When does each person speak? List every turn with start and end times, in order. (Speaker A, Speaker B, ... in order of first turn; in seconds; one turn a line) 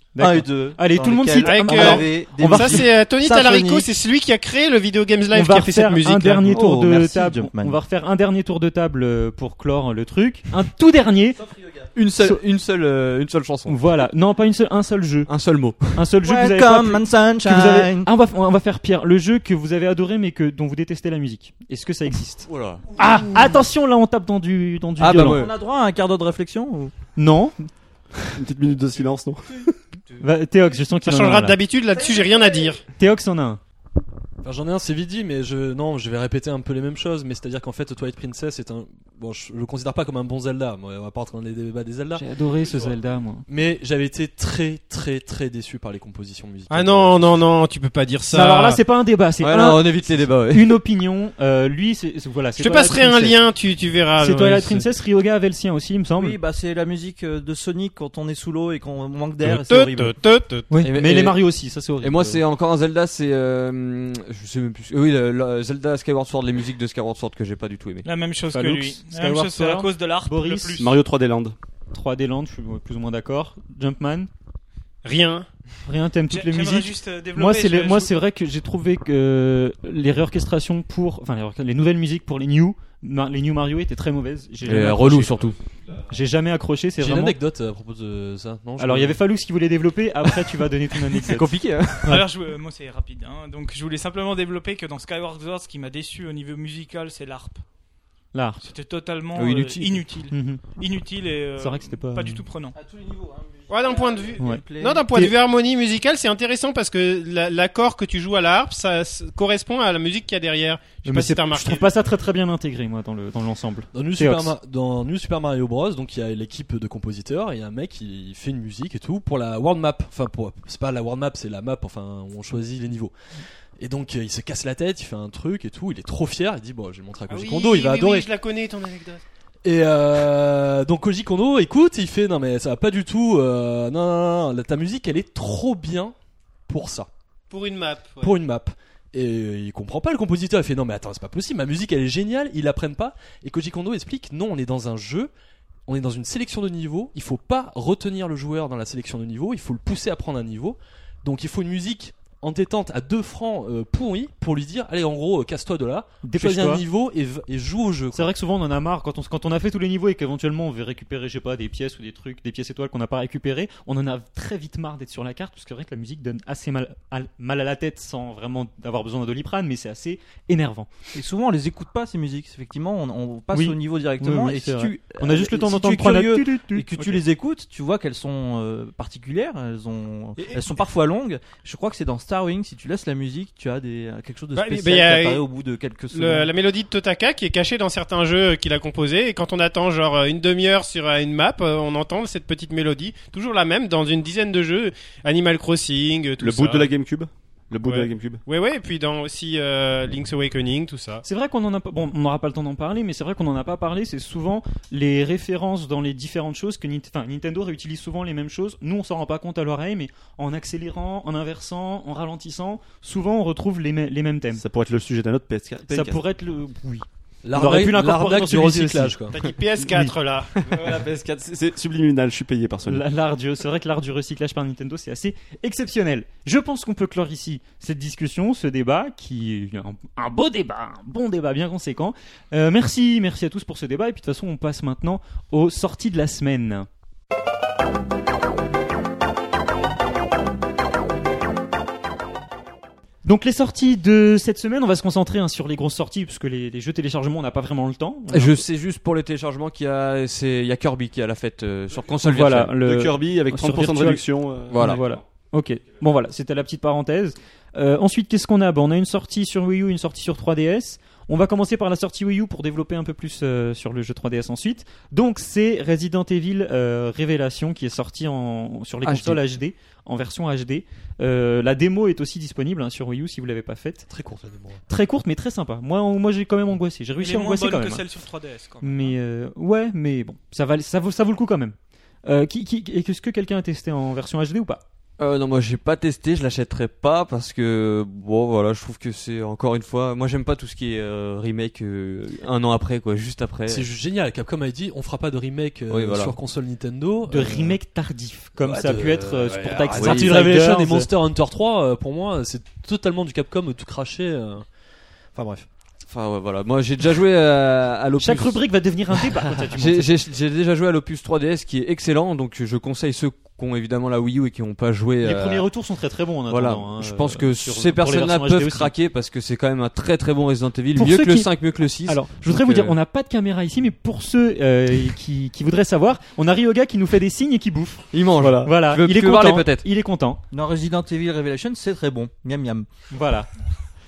Speaker A: 0.1-2.9
Speaker B: 0.2-3.9
Speaker C: 1.4-6.6
Speaker A: 5.3-11.4
Speaker B: 6.5-7.8
Speaker B: 11.4-11.9
Speaker D: 11.9-13.8
Speaker A: 13.7-25.4
Speaker D: 15.3-16.1
Speaker B: 16.2-18.1
Speaker D: 22.5-22.9
Speaker D: 25.0-25.5
Speaker B: 25.0-26.9
Speaker A: 27.2-27.6
Speaker E: 28.3-29.6
Speaker A: 30.2-31.6
Speaker C: 31.1-32.8
Speaker A: 33.0-33.6
Speaker F: 34.4-42.7
Speaker A: 42.1-43.5
Speaker F: 43.5-47.4
Speaker C: 46.7-48.8
Speaker A: 48.3-53.4
Speaker D: 49.4-50.8
Speaker C: 52.6-54.9
Speaker A: 54.2-56.4
Speaker B: 56.2-60.2
Speaker C: 59.4-60.7
Speaker A: 60.7-62.4
Speaker D: 60.8-61.4
Speaker D: 62.0-68.1
Speaker G: 68.0-71.0
Speaker A: 68.5-70.8
Speaker E: 70.8-71.6
Speaker A: 71.9-74.3
Speaker C: 75.0-75.5
Speaker A: 75.9-85.5
Speaker G: 76.3-78.1
Speaker D: 84.7-85.6
Speaker E: 85.3-86.1
Speaker A: 86.1-87.4
Speaker F: 87.0-89.2
Speaker A: 88.8-91.5
Speaker D: 91.1-92.2
Speaker G: 92.0-97.7
Speaker A: 98.3-98.6
Speaker G: 98.6-102.8
Speaker D: 99.3-100.0
Speaker A: 100.3-100.6
Speaker A: 101.6-102.4
Speaker B: 102.7-105.1
Speaker C: 103.7-111.9
Speaker A: 111.0-114.6
Speaker F: 113.9-123.1
Speaker F: 123.8-128.3
Speaker C: 127.3-129.2
Speaker F: 129.6-136.2
Speaker F: 136.7-137.1
Speaker C: 137.5-138.3
Speaker F: 138.2-145.3
Speaker F: 145.9-158.3
Speaker A: 156.2-156.8
Speaker A: 158.1-170.9
Speaker B: 171.2-186.5
Speaker A: 173.5-177.2
Speaker C: 184.6-185.4
Speaker C: 186.1-196.9
Speaker E: 196.4-198.4
Speaker C: 197.8-201.2
Speaker A: 201.2-214.6
Speaker E: 214.6-216.2
Speaker A: 215.9-219.2
Speaker F: 217.4-219.4
Speaker C: 219.3-220.7
Speaker A: 219.8-220.2
Speaker E: 220.6-223.1
Speaker A: 222.8-236.9
Speaker A: 243.2-248.7
Speaker D: 248.3-252.8
Speaker A: 252.2-274.1
Speaker E: 252.7-255.3
Speaker D: 254.7-255.0
Speaker D: 269.0-269.4
Speaker F: 274.1-274.8
Speaker A: 274.9-278.1
Speaker G: 277.2-279.2
Speaker A: 278.8-284.8
Speaker D: 285.2-293.9
Speaker F: 293.7-297.8
Speaker D: 295.9-296.4
Speaker A: 297.3-301.1
Speaker F: 298.6-304.7
Speaker D: 299.9-300.3
Speaker F: 305.3-305.7
Speaker D: 306.1-308.8
Speaker A: 308.2-310.2
Speaker D: 309.7-315.7
Speaker A: 315.2-318.9
Speaker D: 316.5-323.0
Speaker A: 320.9-330.4
Speaker D: 328.1-329.9
Speaker B: 330.5-332.9
Speaker A: 333.1-333.5